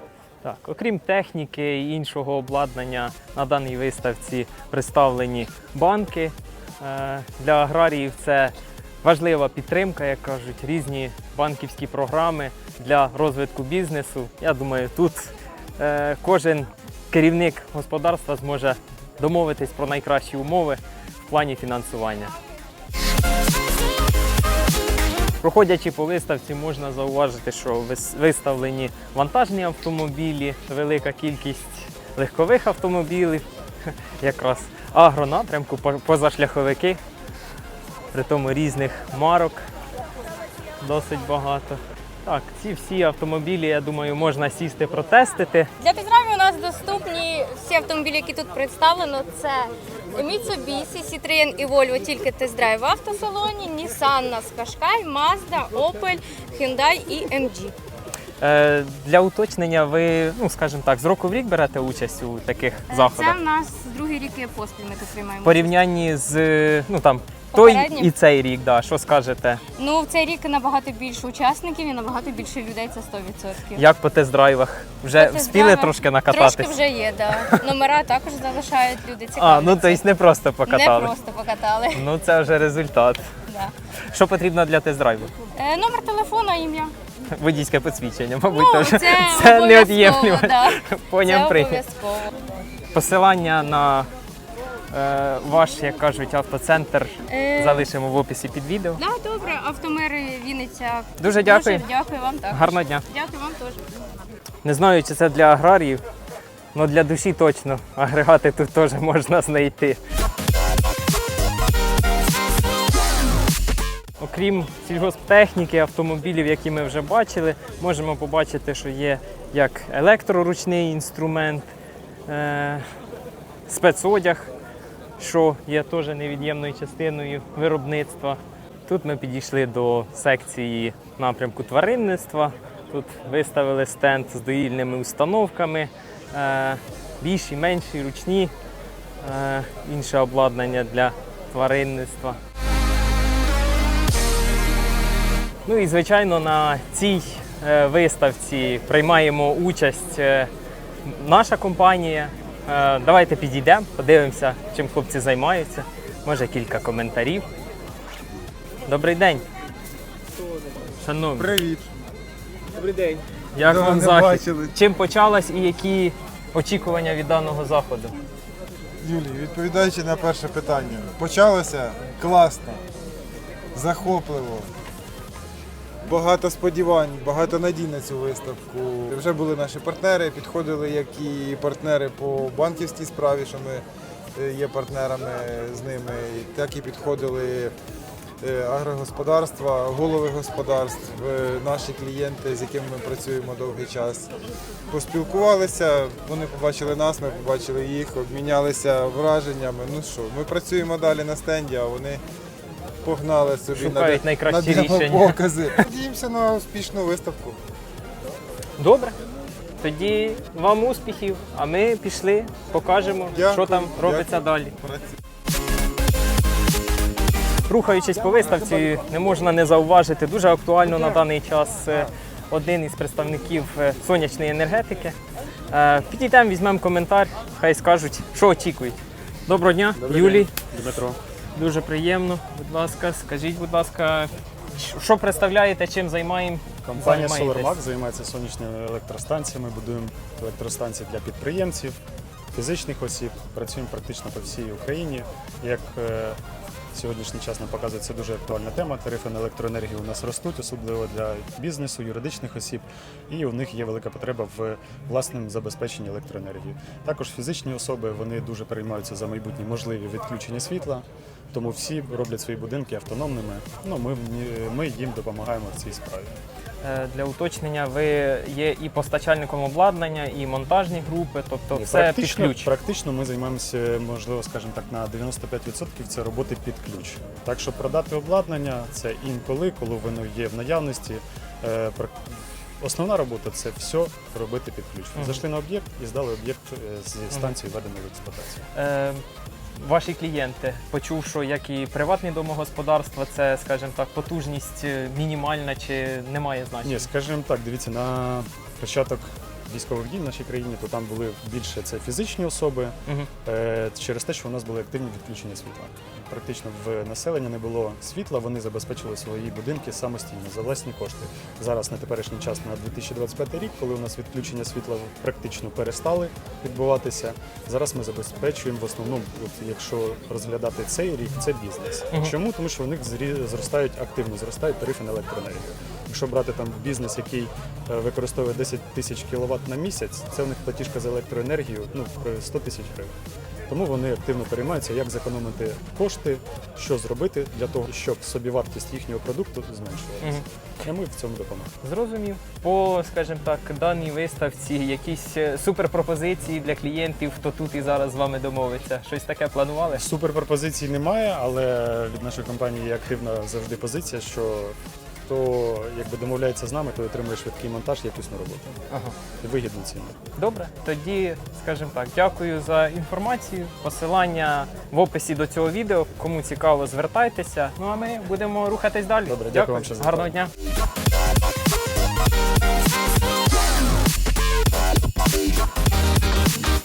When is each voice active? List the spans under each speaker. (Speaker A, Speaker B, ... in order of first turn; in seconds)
Speaker A: 0.4-22.3, 25.4-37.0, 38.1-39.6, 40.8-45.7, 58.4-63.4, 65.4-69.6, 73.8-76.8, 79.4-81.1, 81.9-83.3, 84.1-85.3, 87.3-91.8, 92.9-94.1, 94.9-99.0, 101.2-101.8, 102.5-103.0, 104.6-106.0, 106.7-110.0, 114.2-121.7, 122.3-122.8, 123.7-124.5, 125.2-138.5, 139.2-142.4, 145.7-150.5, 151.1-157.5, 158.9-159.5, 161.0-161.5, 162.8-168.1, 203.8-205.8, 208.8-209.2, 209.8-214.7, 217.7-225.2, 225.7-230.5, 231.6-237.8, 266.8-272.7, 285.1-285.4, 288.8-289.2, 289.8-297.1, 341.8-350.0, 360.4-370.5
Speaker B: 45.8-57.8, 62.9-65.7, 67.5-68.1, 69.8-73.8, 75.2-80.0, 80.7-82.1, 85.5-86.9, 88.5-92.4, 97.3-97.8, 99.0-103.8
Speaker C: 161.4-161.9, 162.8-164.7, 169.0-172.8, 173.7-174.7, 176.0-183.8, 184.3-187.7, 188.4-194.3, 194.9-202.2, 203.0-207.6, 213.3-215.1
Speaker D: 230.0-231.2, 236.8-242.0, 242.5-246.4, 246.9-266.4, 271.7-288.6, 296.9-333.1, 333.7-341.7, 349.9-354.8, 355.3-358.8, 359.4-360.2, 369.3-370.3